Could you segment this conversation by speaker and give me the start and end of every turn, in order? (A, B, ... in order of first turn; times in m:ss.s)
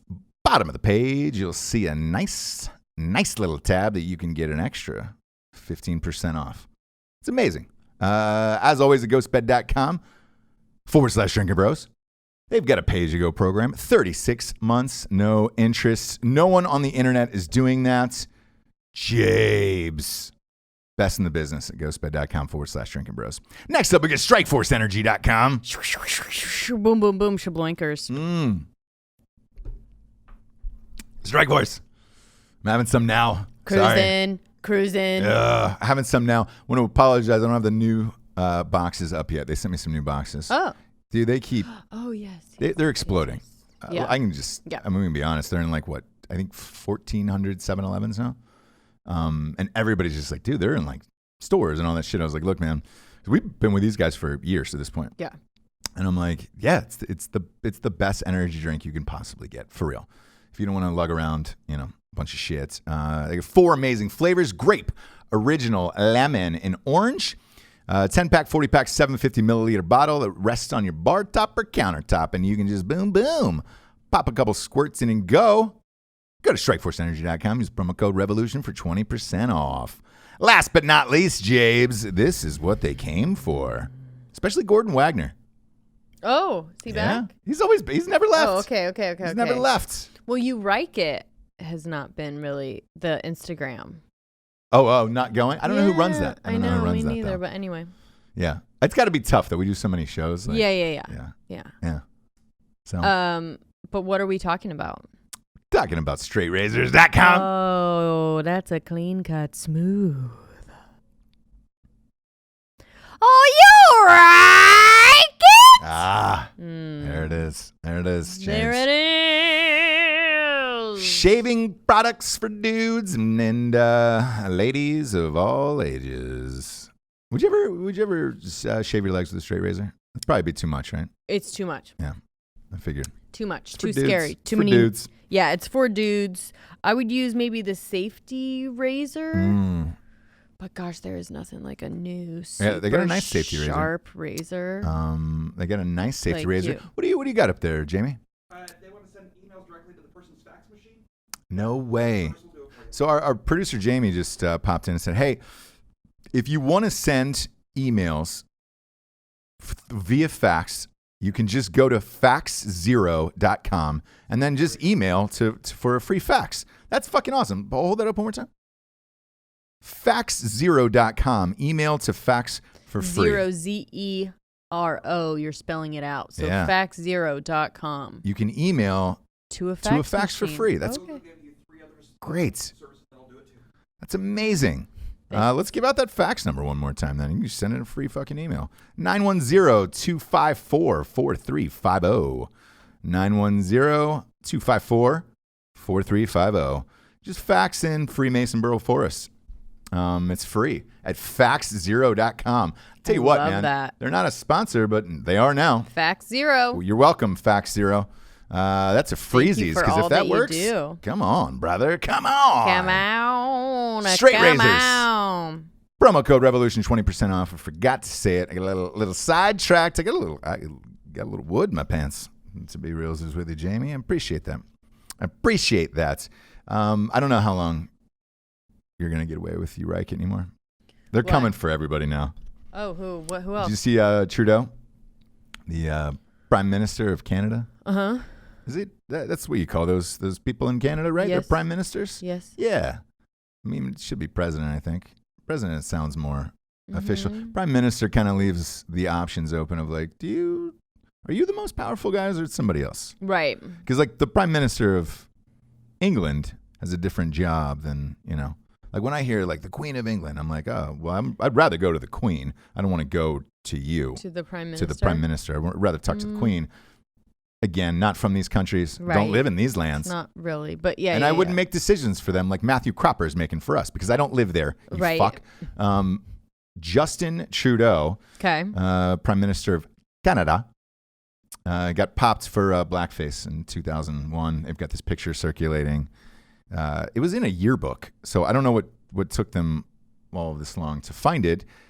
0:00.4-0:06.7 A
0:07.2-0:10.0 A
0:10.8-0:11.9 A
0:12.5-0:18.3 A
0:18.9-0:20.3 A
0:21.0-0:25.7 A
0:25.7-0:28.1 B
0:28.1-0:28.7 A
0:31.2-0:31.8 A
0:32.6-0:34.2 A
0:33.7-0:35.4 B
0:35.2-0:40.5 A
0:40.5-0:40.8 B
0:41.1-0:41.7 A
0:41.7-0:43.3 B
0:42.6-0:48.4 A
0:43.9-0:44.8 B
0:49.0-0:55.1 A
0:56.0-1:15.8 A
1:16.4-1:25.3 A
1:26.2-1:27.3 B
1:26.9-1:28.7 A
1:28.3-1:29.7 B
1:29.2-1:30.1 A
1:30.2-1:34.0 B
1:34.7-1:37.4 A
1:35.6-1:37.9 B
1:38.4-1:42.0 A
1:40.5-1:41.7 B
1:42.8-1:43.1 A
1:43.0-1:45.1 B
1:45.7-1:47.5 A
1:47.2-1:50.8 B
1:53.2-1:56.0 B
1:55.8-1:58.8 A
1:56.6-1:57.4 B
1:58.3-2:01.3 B
2:01.0-2:11.1 A
2:11.3-2:11.9 B
2:12.7-2:13.1 A
2:13.3-2:19.6 B
2:13.8-2:15.1 A
2:19.3-2:20.0 A
2:20.6-2:24.9 B
2:22.6-2:23.9 A
2:24.8-2:28.2 A
2:26.3-2:26.8 B
2:28.6-2:31.0 C
2:31.5-2:35.4 A
2:36.3-2:38.4 A
2:39.6-2:48.5 A
2:49.8-2:53.5 A
2:53.0-2:58.2 B
2:56.4-2:56.7 A
2:58.2-2:59.2 A
2:59.5-3:01.2 B
2:59.8-3:01.0 A
3:02.2-3:02.7 A
3:03.2-3:03.4 C
3:04.0-3:12.5 A
3:13.0-3:19.3 A
3:19.9-3:25.9 A
3:23.1-3:23.9 B
3:25.9-3:26.8 B
3:26.7-3:33.0 A
3:29.3-3:31.0 B
3:32.6-3:35.7 B
3:34.0-3:35.1 A
3:36.0-3:44.6 A
3:45.2-3:47.9 A
3:49.0-3:50.5 A
3:51.1-3:52.3 A
3:51.2-3:51.5 B
3:52.7-3:53.8 B
3:53.6-3:54.7 A
3:55.7-3:57.7 A
3:57.8-3:58.3 B
3:58.7-4:03.0 A
4:01.2-4:01.6 B
4:02.2-4:02.5 B
4:03.6-4:13.2 A
4:06.9-4:07.5 B
4:13.2-4:13.8 B
4:13.8-4:15.3 A
4:16.0-4:24.2 A
4:24.2-4:25.2 B
4:24.8-4:26.7 A
4:26.1-4:26.6 B
4:27.6-4:30.1 A
4:29.0-4:31.6 B
4:31.1-4:36.2 A
4:34.9-4:35.4 B
4:36.8-4:38.2 A
4:38.4-4:38.8 B
4:38.7-4:40.7 A
4:41.7-4:46.1 A
4:46.7-4:51.6 A